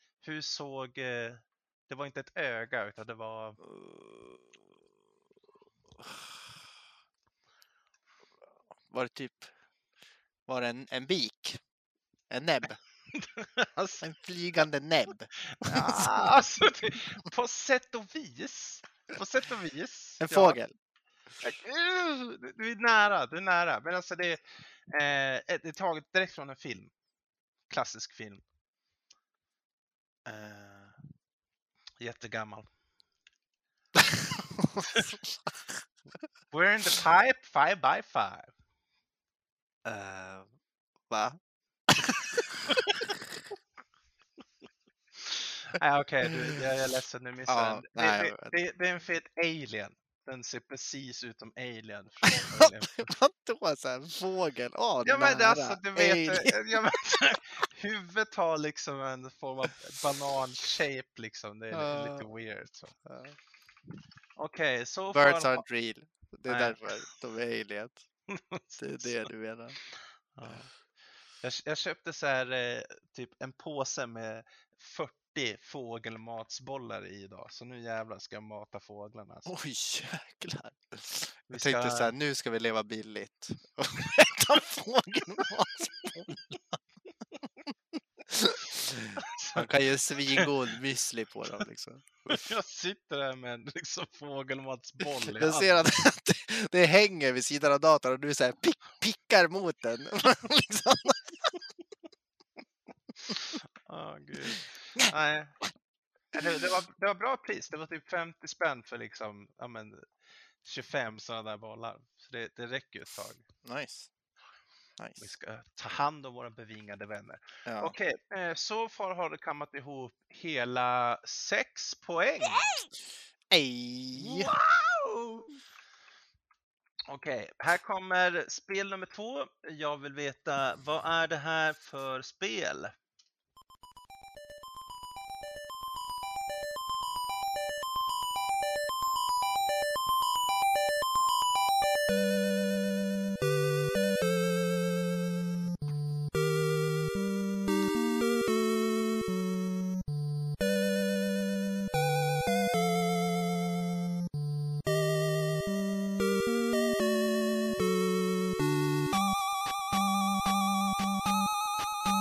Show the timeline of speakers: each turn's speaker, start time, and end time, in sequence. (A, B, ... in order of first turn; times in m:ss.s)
0:00.2-0:03.6 A
0:03.6-0:04.6 B
0:06.0-0:06.4 B
0:08.9-0:09.5 B
0:10.5-0:11.6 B
0:12.3-0:12.8 B
0:13.1-0:14.0 A
0:14.0-0:16.3 B
0:15.5-0:20.6 A
0:20.2-0:20.7 B
0:21.4-0:26.9 A
0:27.7-0:28.4 A
0:30.2-0:31.0 B
0:32.0-0:32.7 A
0:33.9-0:35.8 B
0:36.5-0:38.5 A
0:39.8-0:40.5 B
0:41.1-0:43.3 B
0:42.7-0:43.0 A
0:45.2-0:53.1 A
0:47.5-0:48.5 B
0:52.3-0:56.8 B
0:55.0-1:02.9 A
1:01.7-1:02.2 B
1:03.0-1:03.4 B
1:04.4-1:05.6 A
1:05.1-1:08.0 B
1:06.5-1:06.8 A
1:08.3-1:09.2 A
1:08.8-1:09.8 B
1:10.3-1:10.7 A
1:11.4-1:19.5 A
1:19.4-1:26.6 B
1:21.5-1:22.1 A
1:28.3-1:32.4 B
1:29.2-1:29.7 A
1:32.3-1:35.8 A
1:35.2-1:41.5 B
1:43.3-1:45.6 A
1:44.5-1:45.1 B
1:46.3-1:50.1 A
1:46.4-1:46.7 B
1:50.6-1:53.4 A
1:53.6-1:54.1 B
1:55.0-1:55.3 B
1:55.2-2:02.7 A
1:57.6-1:57.9 B
2:03.5-2:04.5 B
2:04.2-2:05.4 A
2:07.1-2:12.9 A